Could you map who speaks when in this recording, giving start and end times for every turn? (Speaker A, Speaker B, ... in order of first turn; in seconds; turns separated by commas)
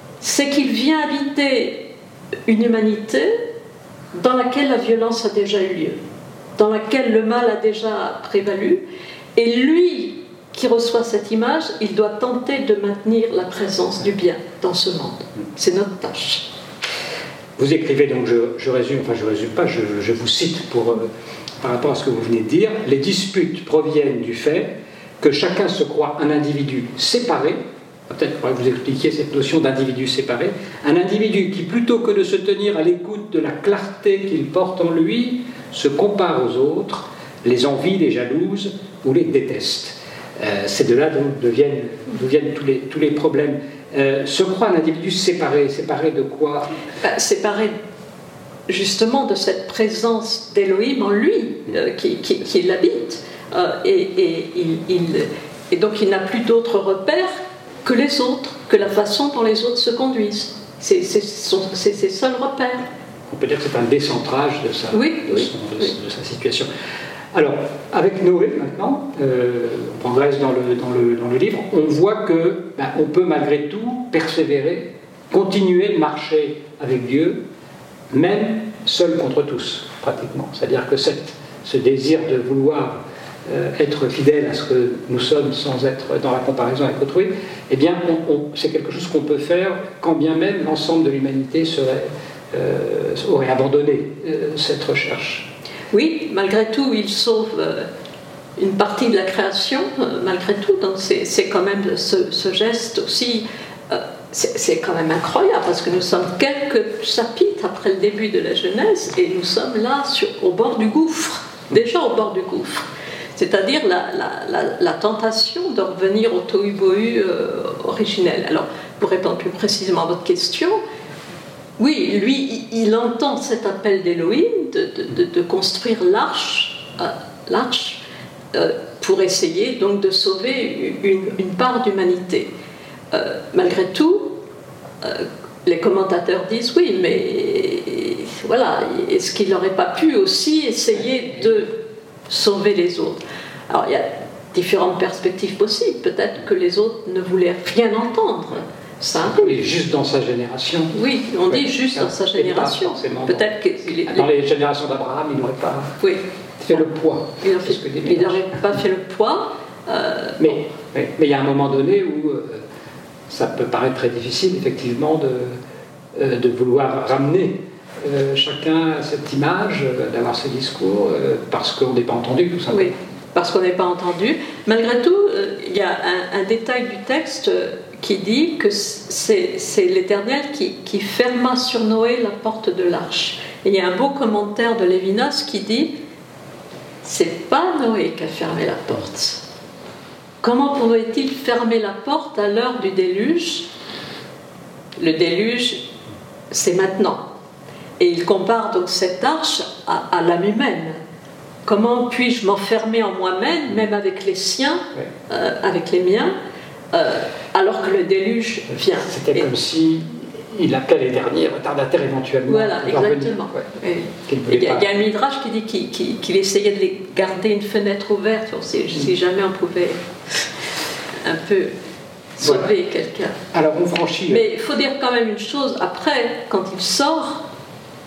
Speaker A: 0.2-1.9, Speaker A: 2.5-3.4, Speaker A: 4.1-6.0, Speaker A: 6.6-16.5, Speaker B: 17.6-21.1, Speaker B: 21.6-46.7, Speaker A: 47.0-47.7, Speaker A: 48.7-62.9, Speaker B: 63.3-66.7, Speaker A: 64.9-65.9, Speaker B: 67.3-77.4, Speaker B: 78.1-95.5, Speaker A: 95.9-97.9, Speaker A: 98.6-120.8, Speaker A: 121.8-132.5, Speaker A: 133.1-134.4, Speaker A: 135.0-149.6, Speaker B: 149.2-150.9, Speaker A: 150.9-154.3, Speaker B: 151.5-156.0, Speaker B: 156.6-158.5, Speaker A: 157.4-160.6, Speaker B: 160.4-162.6, Speaker B: 163.3-165.6, Speaker B: 166.1-172.9, Speaker A: 172.7-186.0, Speaker A: 187.0-189.4, Speaker A: 190.4-193.7, Speaker A: 195.0-195.9, Speaker A: 196.5-197.2, Speaker A: 198.0-201.0, Speaker A: 201.7-206.3, Speaker A: 206.9-209.5, Speaker B: 209.0-214.9, Speaker A: 212.5-220.0, Speaker A: 221.2-221.7, Speaker A: 222.4-223.4, Speaker B: 222.4-222.7, Speaker B: 223.5-224.4, Speaker A: 224.3-227.4